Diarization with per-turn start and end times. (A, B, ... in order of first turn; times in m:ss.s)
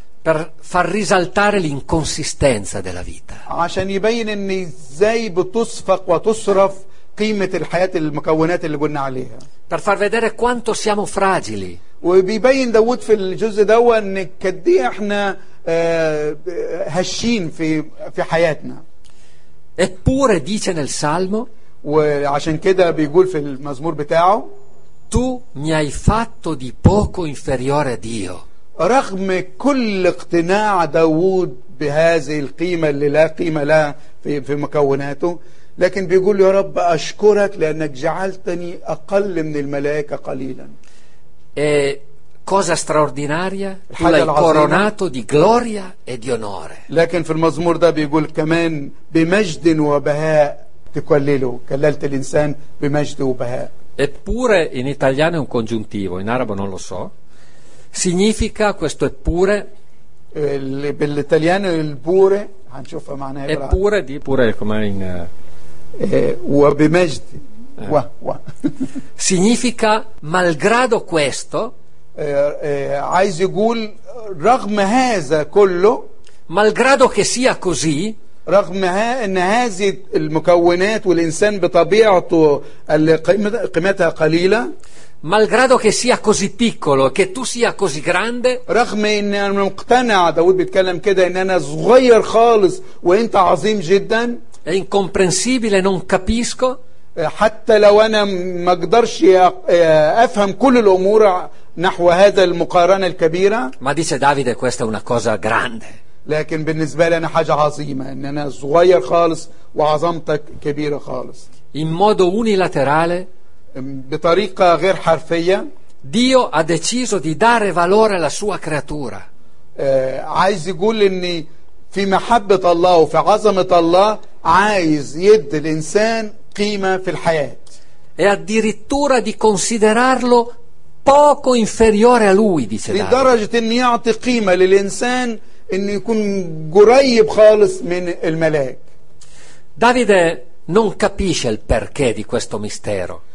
0:00.2-0:03.4 A
0:03.5-0:09.4 B
0:09.7-0:11.8 A
0:12.0-0:18.8 B
0:19.8-0:21.5 A
0:21.8-0:24.5 B
0:25.1-0:28.4 A
0:28.8-0:40.7 B
0:41.6-0:46.8 A
0:43.9-0:44.9 B
0:46.9-0:53.7 B
0:54.0-0:57.1 A
0:57.9-0:59.7 A
1:00.3-1:03.8 B
1:03.5-1:05.3 A
1:06.0-1:08.4 B
1:09.2-1:11.7 A
1:12.2-1:16.0 B
1:16.5-1:18.2 A
1:18.4-1:24.7 B
1:25.2-1:28.6 A
1:28.7-1:34.4 B
1:34.6-1:36.8 A
1:37.2-1:43.7 B
1:43.8-1:46.0 A
1:46.2-1:51.5 B
1:51.7-1:53.3 A
1:53.7-1:55.6 B
1:56.0-1:59.2 A
1:59.8-2:07.7 B
2:08.2-2:10.5 A
2:11.0-2:13.3 A
2:12.9-2:18.8 B
2:19.8-2:23.2 A